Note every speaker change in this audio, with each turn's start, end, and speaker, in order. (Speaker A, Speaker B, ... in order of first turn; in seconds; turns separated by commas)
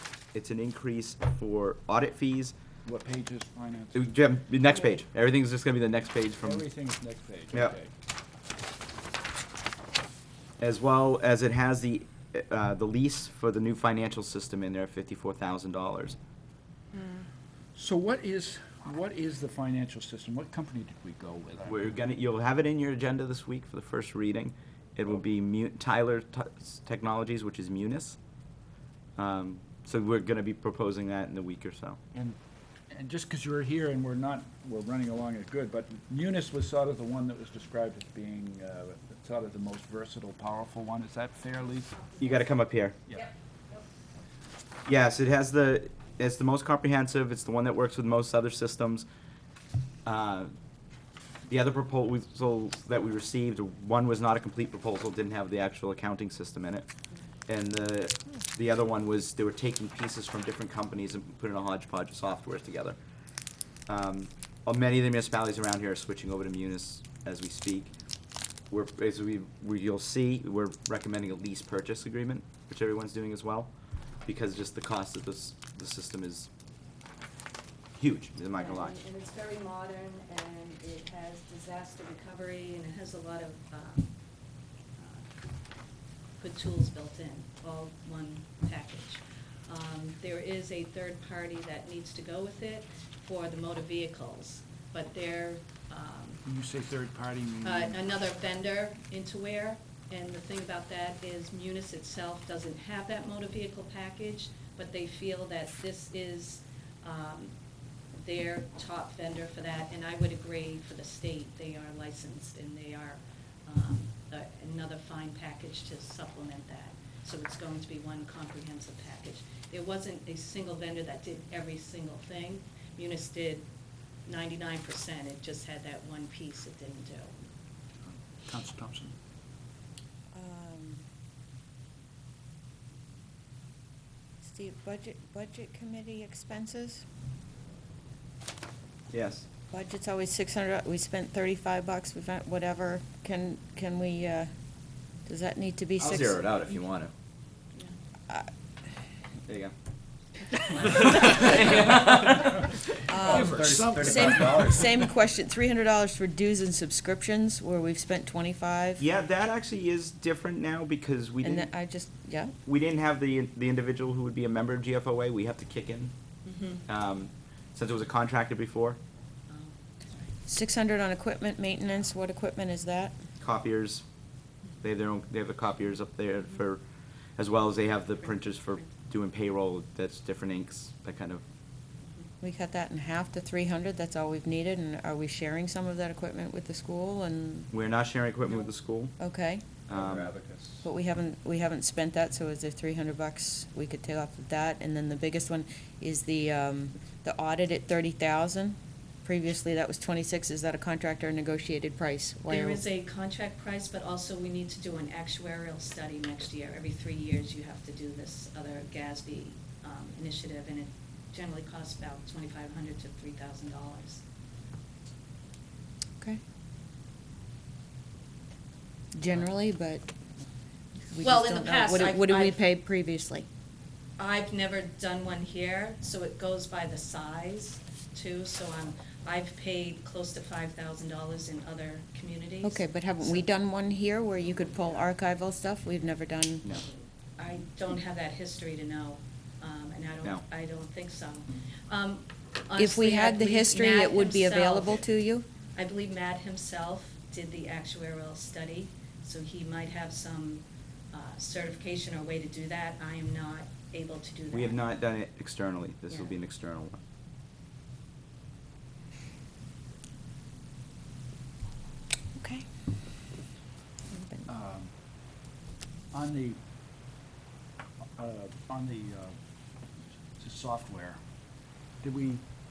Speaker A: 0.3-2.5, Speaker B: 2.8-4.2, Speaker A: 3.9-6.6, Speaker B: 6.4-7.9, Speaker A: 10.6-16.2, Speaker C: 16.9-17.2, Speaker B: 17.8-21.9, Speaker A: 21.6-28.2, Speaker A: 29.2-32.0, Speaker B: 32.9-42.1, Speaker A: 42.2-43.0, Speaker A: 44.9-49.0, Speaker A: 50.0-50.5, Speaker A: 51.5-56.9, Speaker A: 57.5-63.0, Speaker A: 63.9-67.9, Speaker A: 68.7-73.7, Speaker A: 74.2-76.5, Speaker A: 78.0-79.0, Speaker C: 78.5-84.1, Speaker C: 85.0-85.3, Speaker C: 86.4-96.4, Speaker B: 96.4-98.0, Speaker C: 97.6-107.5, Speaker C: 108.1-123.7, Speaker C: 124.2-127.3, Speaker B: 128.1-129.1, Speaker D: 130.3-131.0, Speaker D: 134.4-137.0, Speaker A: 139.1-139.5, Speaker D: 139.7-144.5, Speaker D: 145.2-146.4, Speaker A: 146.0-147.1, Speaker A: 149.5-149.7, Speaker D: 150.8-151.7, Speaker B: 150.9-152.4, Speaker A: 151.3-152.5, Speaker D: 153.1-159.0, Speaker B: 153.2-154.9, Speaker A: 153.2-154.9, Speaker A: 159.0-161.7, Speaker D: 161.4-162.5, Speaker A: 162.6-166.1, Speaker C: 166.4-166.8, Speaker A: 166.8-169.0, Speaker C: 169.5-170.3, Speaker D: 170.4-173.2, Speaker A: 173.4-174.0, Speaker A: 174.8-176.8, Speaker A: 177.4-181.4, Speaker D: 182.4-187.7, Speaker A: 187.7-189.1, Speaker D: 189.2-189.6, Speaker A: 189.9-190.3, Speaker B: 189.9-190.8, Speaker D: 190.8-202.8, Speaker C: 202.5-214.2, Speaker D: 219.1-220.1, Speaker D: 221.1-223.5, Speaker C: 221.2-222.6, Speaker C: 224.2-233.4, Speaker D: 232.6-236.7, Speaker C: 237.4-245.0, Speaker D: 242.8-245.4, Speaker C: 245.7-254.8, Speaker A: 254.5-257.0, Speaker D: 262.4-262.6, Speaker B: 264.4-264.9, Speaker B: 266.1-266.6, Speaker B: 268.2-269.4, Speaker B: 270.4-271.2, Speaker B: 272.0-272.4